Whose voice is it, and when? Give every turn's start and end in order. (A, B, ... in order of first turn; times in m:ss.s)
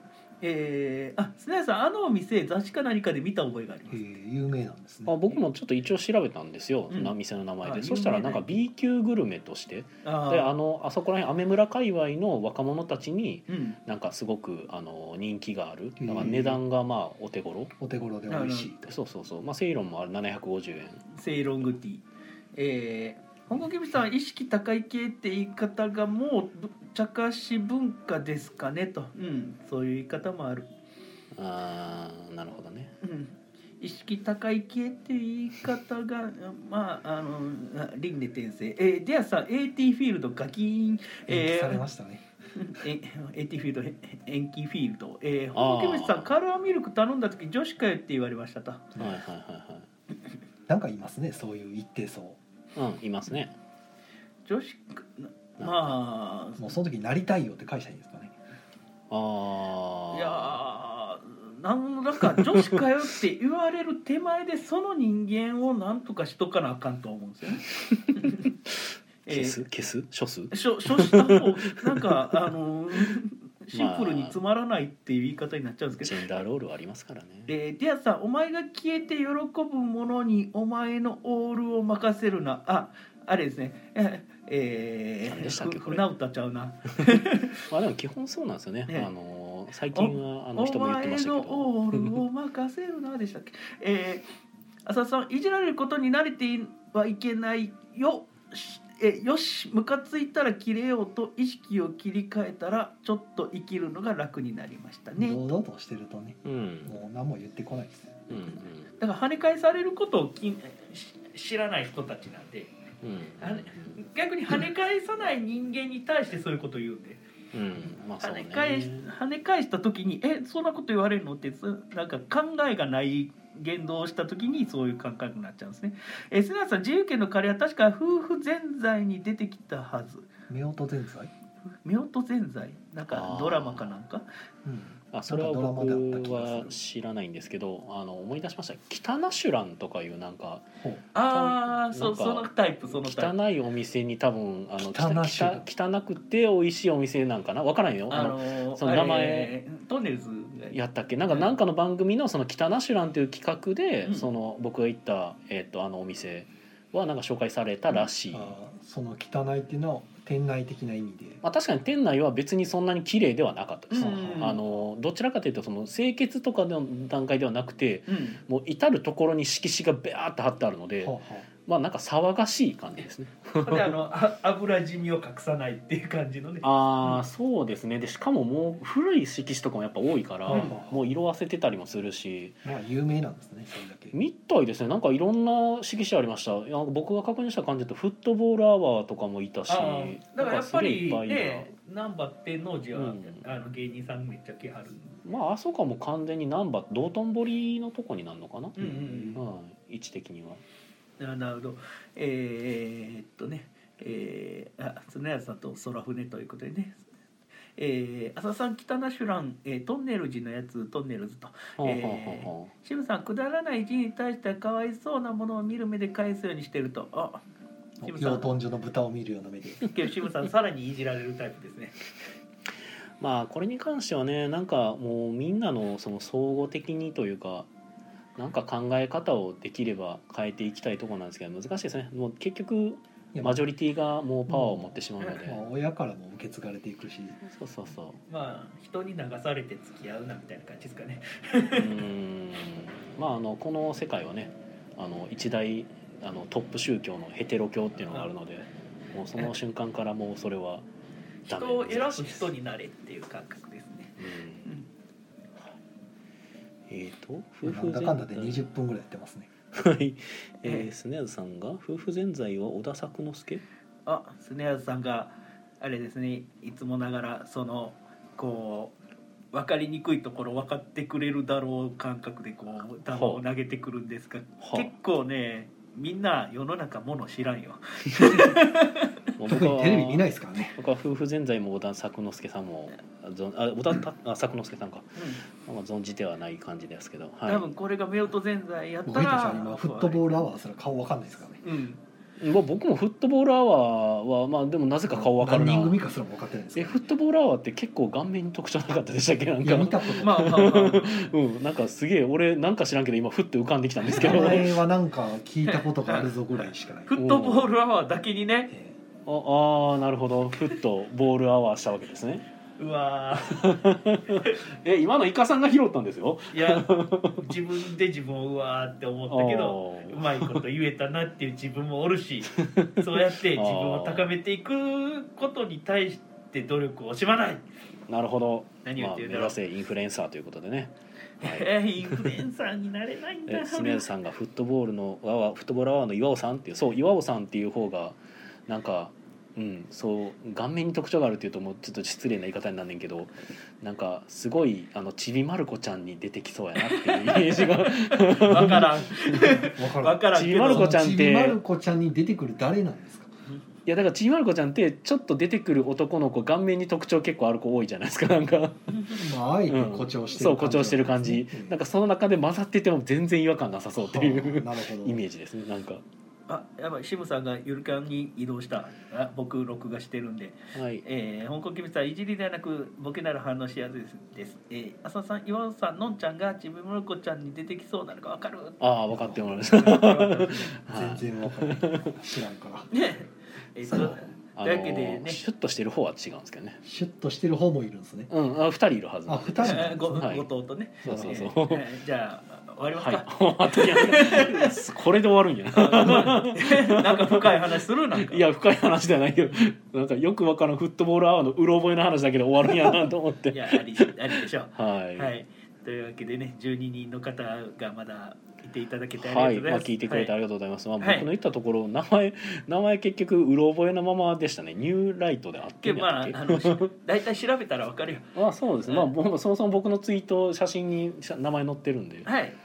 0:00.4-0:04.1 A
0:03.9-0:05.2 B
0:05.1-0:17.7 C
0:06.9-0:08.5 A
0:10.0-0:10.5 A
0:13.5-0:13.8 A
0:16.0-0:16.6 B
0:17.8-0:18.9 B
0:18.3-0:18.7 A
0:18.9-0:21.1 C
0:21.1-0:22.0 A
0:22.6-0:30.7 A
0:31.4-0:32.9 C
0:33.0-0:41.8 A
0:41.3-0:42.2 B
0:42.6-0:49.0 A
0:45.6-0:46.3 C
0:49.0-0:49.9 C
0:50.7-0:52.4 B
0:52.8-0:53.6 C
0:54.5-0:56.8 A
0:55.6-0:55.9 C
0:56.6-0:58.4 B
0:59.1-1:00.6 C
1:00.1-1:08.5 A
1:02.2-1:02.6 C
1:08.7-1:11.4 C
1:09.3-1:09.6 A
1:10.5-1:16.4 A
1:12.0-1:12.3 C
1:13.7-1:14.4 C
1:16.0-1:17.5 C
1:17.5-1:27.6 A
1:25.3-1:26.1 C
1:27.7-1:32.2 C
1:29.9-1:34.2 A
1:34.8-1:45.6 A
1:45.2-1:48.2 B
1:46.4-1:47.0 C
1:48.3-1:48.9 C
1:49.0-1:52.7 A
1:53.0-1:54.0 C
1:53.4-1:57.2 A
1:57.5-1:59.1 C
1:58.2-2:10.3 A
2:10.5-2:11.3 B
2:11.8-2:14.3 A
2:13.1-2:13.9 C
2:14.6-2:16.8 B
2:15.1-2:20.7 C
2:21.2-2:23.3 A
2:21.3-2:29.5 C
2:24.8-2:25.7 B
2:28.1-2:30.8 A
2:30.7-2:38.6 C
2:38.3-2:41.4 B
2:41.4-2:54.0 C
2:43.9-2:44.6 A
2:44.0-2:44.5 B
2:48.1-2:48.4 A
2:51.0-2:51.5 B
2:53.6-2:57.2 A
2:56.6-3:02.6 C
3:00.5-3:01.0 B
3:00.5-3:00.8 A
3:02.6-3:04.2 B
3:04.1-3:11.7 C
3:09.7-3:15.2 A
3:13.0-3:13.5 C
3:15.2-3:20.6 C
3:18.8-3:19.4 A
3:18.8-3:19.2 B
3:21.2-3:27.0 A
3:27.8-3:37.4 A
3:31.8-3:32.7 C
3:38.0-3:39.9 B
3:38.0-3:38.5 A
3:39.8-3:42.0 A
3:43.2-3:47.7 C
3:48.4-3:55.6 C
3:53.3-3:53.6 B
3:54.5-3:57.4 B
3:57.4-3:58.2 C
3:58.3-4:02.0 A
4:01.7-4:10.9 C
4:11.4-4:14.9 A
4:11.5-4:12.5 C
4:14.2-4:14.8 C
4:16.9-4:18.6 C
4:17.6-4:19.5 B
4:19.7-4:23.6 C
4:20.6-4:20.9 A
4:24.1-4:29.0 A
4:29.5-4:39.1 A
4:33.1-4:33.4 C
4:34.6-4:34.9 C
4:39.4-4:47.7 C
4:39.5-4:40.8 B
4:45.2-4:45.4 A
4:47.5-4:50.4 A
4:49.1-4:51.6 B
4:51.6-4:52.0 A
4:52.4-4:56.0 C
4:55.1-4:57.0 B
4:56.8-5:04.8 C
4:59.6-5:00.5 B
5:00.2-5:01.3 A
5:04.2-5:07.1 B
5:04.2-5:04.6 A
5:05.6-5:06.3 A
5:07.1-5:08.7 A
5:07.2-5:07.7 C
5:08.7-5:09.0 B
5:09.3-5:12.4 C
5:12.8-5:13.8 A
5:13.4-5:17.6 C
5:16.5-5:27.7 A
5:19.3-5:20.6 C
5:22.5-5:24.3 C
5:28.1-5:32.2 C
5:28.8-5:29.6 A
5:31.4-5:34.1 A
5:33.5-5:49.6 C
5:46.8-5:50.9 A
5:48.5-5:49.0 B
5:49.6-5:53.3 B
5:50.3-5:51.6 C
5:53.9-5:58.9 C
5:59.1-6:01.8 B
5:59.7-6:06.0 C
6:04.0-6:05.2 B
6:06.5-6:18.8 A
6:10.7-6:11.0 C
6:18.8-6:22.2 C
6:19.1-6:20.2 B
6:19.7-6:20.7 A
6:20.9-6:22.9 B
6:22.9-6:25.4 A
6:23.9-6:26.8 C
6:26.8-6:28.3 B
6:28.3-6:30.5 C
6:29.3-6:30.3 B
6:29.6-6:34.7 A
6:31.0-6:31.9 C
6:31.0-6:31.5 B
6:33.0-6:45.3 C
6:35.7-6:38.4 A
6:43.5-6:50.3 A
6:49.2-6:56.9 C
6:51.0-6:51.3 A
6:55.8-6:58.4 A
6:58.4-7:02.3 C
7:02.2-7:02.6 A